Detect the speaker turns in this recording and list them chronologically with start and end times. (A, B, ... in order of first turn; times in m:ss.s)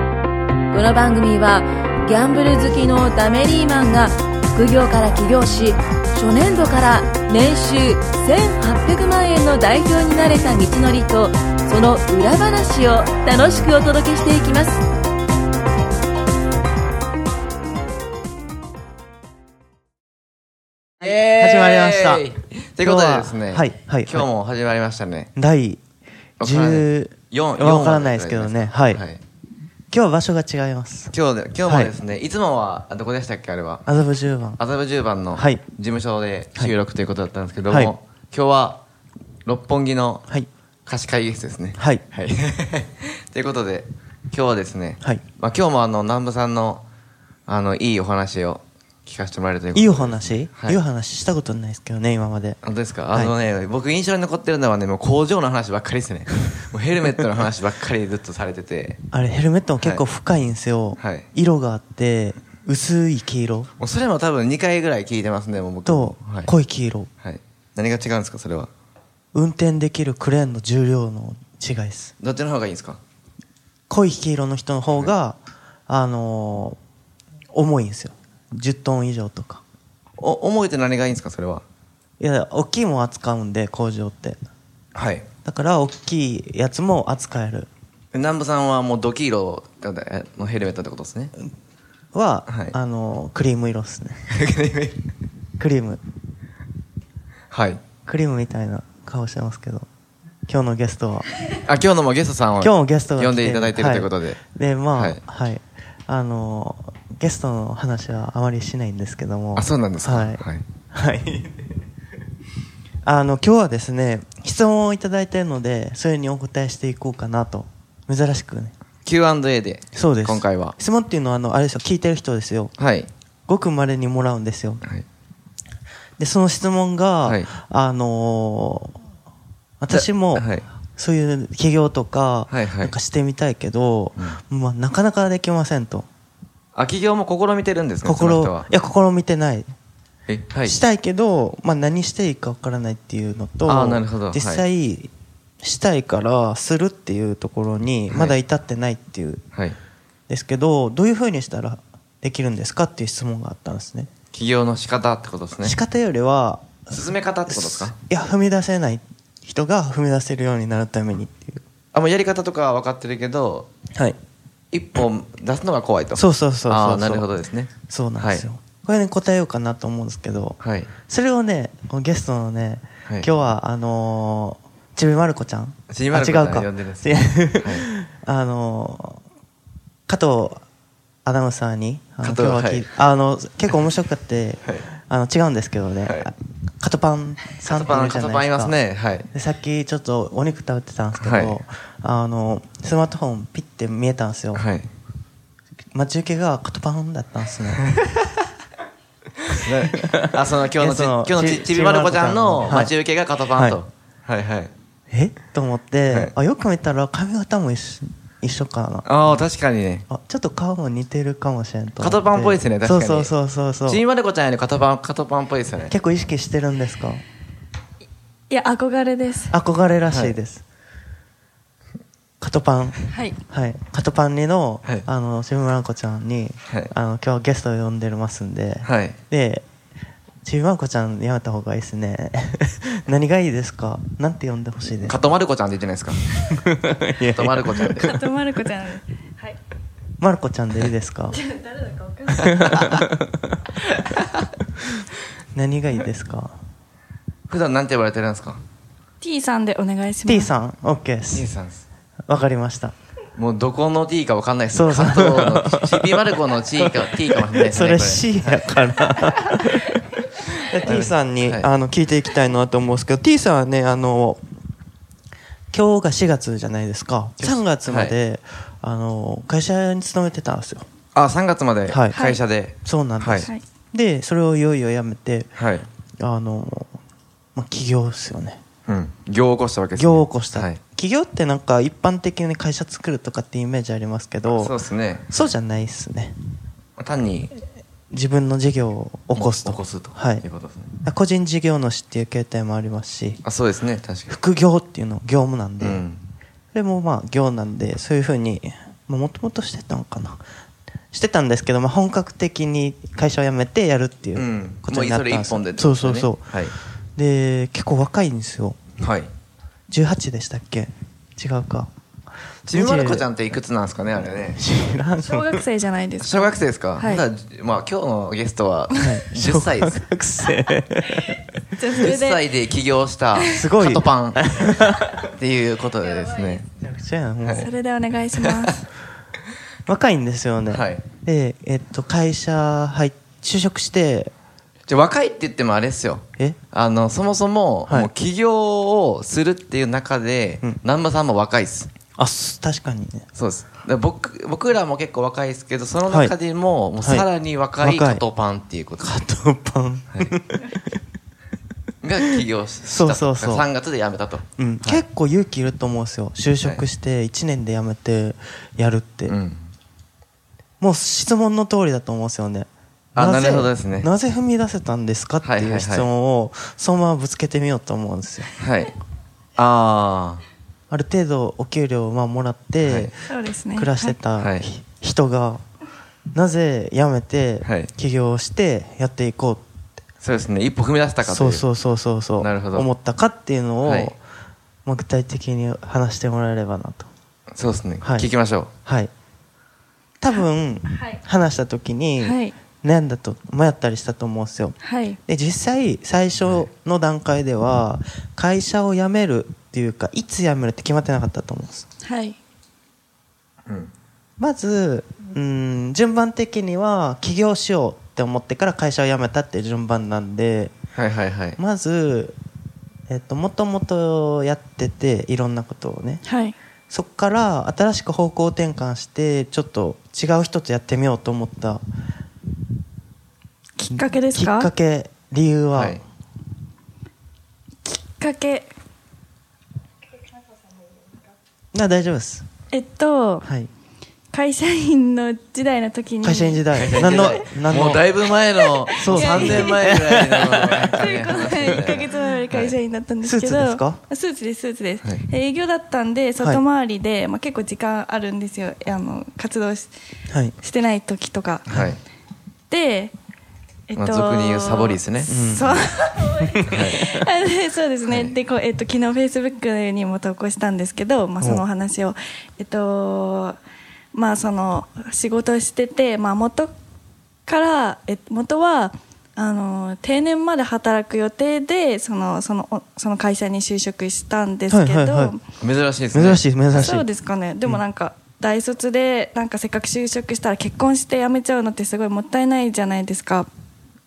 0:00.7-0:14.8 A
0:21.0-0:25.3 B
0:21.0-0:22.3 C
0:22.8-0:24.3 C
0:25.4-0:25.8 C
0:26.4-0:29.0 C
0:26.4-0:29.2 B
0:29.9-0:31.1 C
0:31.1-0:33.8 B
0:31.6-0:31.9 C
0:33.8-0:34.6 C
0:34.6-0:38.8 B
0:35.3-0:35.6 C
0:37.7-0:37.9 C
0:39.4-0:40.2 B
0:40.8-0:46.8 B
0:41.8-0:42.0 C
0:47.5-0:50.8 B
0:49.7-0:52.6 C
0:52.6-0:59.0 B
0:59.1-1:03.7 C
1:01.0-1:01.3 B
1:03.8-1:06.5 B
1:05.8-1:07.1 C
1:07.2-1:08.7 B
1:09.3-1:12.1 C
1:12.2-1:13.0 B
1:13.9-1:16.8 C
1:17.5-1:19.6 C
1:20.2-1:21.6 B
1:22.2-1:24.4 C
1:24.9-1:25.2 B
1:25.4-1:27.7 C
1:28.1-1:31.3 B
1:32.1-1:34.2 C
1:32.5-1:32.7 B
1:34.3-1:35.0 B
1:35.6-1:36.0 C
1:37.5-1:37.8 B
1:38.0-1:39.8 C
1:40.5-1:41.3 C
1:41.6-1:44.4 B
1:42.6-1:50.4 C
1:44.9-1:45.2 B
1:49.6-1:50.6 B
1:50.9-1:51.7 C
1:53.0-1:58.7 C
1:59.0-2:00.7 B
1:59.9-2:02.7 C
2:02.8-2:03.1 B
2:03.5-2:04.8 C
2:06.2-2:08.9 C
2:09.8-2:16.1 C
2:09.9-2:10.6 B
2:12.5-2:12.9 B
2:16.7-2:18.7 B
2:18.0-2:19.7 C
2:20.3-2:20.8 B
2:20.6-2:29.4 C
2:23.6-2:24.6 B
2:30.3-2:34.1 C
2:34.3-2:35.8 B
2:35.6-2:37.0 C
2:36.9-2:37.9 B
2:37.5-2:41.6 C
2:41.9-2:43.7 B
2:44.7-2:48.4 B
2:46.1-2:47.2 C
2:47.9-2:59.2 C
2:50.6-2:50.9 B
2:55.9-2:57.9 B
3:00.1-3:00.6 C
3:01.2-3:08.8 C
3:02.2-3:02.9 B
3:07.7-3:09.3 B
3:09.3-3:14.6 C
3:11.2-3:11.6 B
3:14.5-3:14.9 B
3:15.9-3:17.9 C
3:19.5-3:24.7 B
3:19.9-3:22.9 C
3:23.5-3:23.8 C
3:25.1-3:29.4 C
3:29.0-3:30.0 B
3:30.1-3:34.0 C
3:32.0-3:33.3 B
3:33.8-3:35.9 B
3:35.9-3:37.2 C
3:38.5-3:39.5 D
3:39.5-3:40.6 C
3:40.1-3:40.4 B
3:42.4-3:49.6 C
3:43.1-3:43.4 D
3:48.8-3:49.2 B
3:50.4-3:55.2 C
3:55.0-3:56.3 B
3:56.4-3:58.2 C
3:57.3-3:58.1 B
3:58.0-3:59.6 D
4:00.2-4:01.4 C
4:01.3-4:02.5 D
4:02.4-4:03.0 B
4:02.4-4:03.6 C
4:05.5-4:06.5 C
4:07.5-4:08.6 B
4:09.2-4:10.5 D
4:10.2-4:11.5 C
4:11.3-4:11.8 B
4:12.3-4:12.9 C
4:13.4-4:18.7 B
4:14.7-4:16.3 C
4:16.8-4:24.4 C
4:20.8-4:21.7 B
4:25.7-4:30.8 C
4:27.4-4:28.2 B
4:31.1-4:33.5 B
4:31.9-4:32.3 C
4:32.1-4:32.4 D
4:32.8-4:35.5 C
4:35.6-4:35.9 B
4:36.2-4:36.9 C
4:37.5-4:38.6 C
4:38.9-4:40.8 B
4:40.0-4:44.7 C
4:44.6-4:45.3 B
4:45.3-4:46.3 C
4:47.0-4:47.5 B
4:48.1-4:50.4 C
4:49.3-4:50.9 B
4:51.0-4:53.4 C
4:53.4-4:54.3 B
4:54.3-4:56.0 C
4:55.8-4:56.2 B
4:56.7-5:00.4 C
5:01.1-5:06.6 C
5:04.4-5:06.7 B
5:07.2-5:08.8 C
5:09.0-5:09.3 B
5:09.9-5:11.9 C
5:12.7-5:14.6 B
5:12.7-5:13.3 C
5:14.5-5:15.6 C
5:15.2-5:17.2 D
5:16.2-5:20.0 B
5:19.0-5:21.4 C
5:21.8-5:22.4 D
5:22.0-5:24.8 B
5:23.5-5:25.3 C
5:25.3-5:26.6 B
5:26.8-5:27.7 C
5:27.5-5:28.8 D
5:28.4-5:28.7 B
5:29.8-5:34.3 C
5:30.7-5:31.0 B
5:34.9-5:41.9 B
5:42.2-5:43.3 C
5:43.3-5:49.1 B
5:46.1-5:46.3 C
5:47.0-5:47.3 C
5:47.8-5:48.2 C
5:49.0-5:51.0 C
5:52.0-5:55.0 B
5:52.8-5:53.6 C
5:54.6-5:59.3 C
5:59.3-5:59.7 B
6:00.8-6:08.5 C
6:03.2-6:04.1 B
6:05.4-6:06.1 B
6:08.6-6:08.9 B
6:09.6-6:10.4 B
6:10.9-6:13.1 C
6:12.8-6:13.1 B
6:13.3-6:14.2 D
6:13.7-6:15.6 C
6:14.4-6:14.7 B
6:16.3-6:19.6 C
6:17.6-6:17.9 B
6:20.2-6:21.6 B
6:21.2-6:24.2 C
6:22.4-6:22.9 B
6:23.8-6:24.1 B
6:24.8-6:27.1 C
6:27.6-6:28.7 B
6:28.0-6:28.3 C
6:28.8-6:29.1 C
6:30.2-6:41.8 C
6:32.2-6:32.5 D
6:34.8-6:35.2 D
6:36.4-6:36.7 B
6:42.0-6:42.4 D
6:44.4-6:50.7 C
6:50.9-6:51.6 B
6:51.6-6:52.3 C
6:53.1-6:56.2 C
6:56.2-6:56.6 D
6:56.9-7:01.8 C
7:03.8-7:04.7 D
7:03.9-7:06.0 C
7:05.7-7:06.0 B
7:07.8-7:08.7 D
7:11.7-7:12.4 C
7:12.7-7:13.5 D
7:14.3-7:17.4 D
7:16.2-7:18.0 C
7:16.7-7:22.7 B
7:18.6-7:29.9 D
7:19.0-7:20.9 C
7:23.2-7:24.0 C
7:30.3-7:30.5 C
7:30.6-7:31.8 D
7:31.7-7:32.0 B
7:32.7-7:33.1 D
7:33.9-7:43.6 D
7:34.0-7:35.8 B
7:35.3-7:35.8 C
7:36.4-7:37.2 C
7:36.7-7:37.0 B
7:38.1-7:38.3 B
7:44.1-7:46.7 D
7:47.4-7:55.4 D
7:54.7-7:55.3 C
7:55.6-7:57.0 B
7:56.1-7:57.1 C
7:56.7-8:03.5 D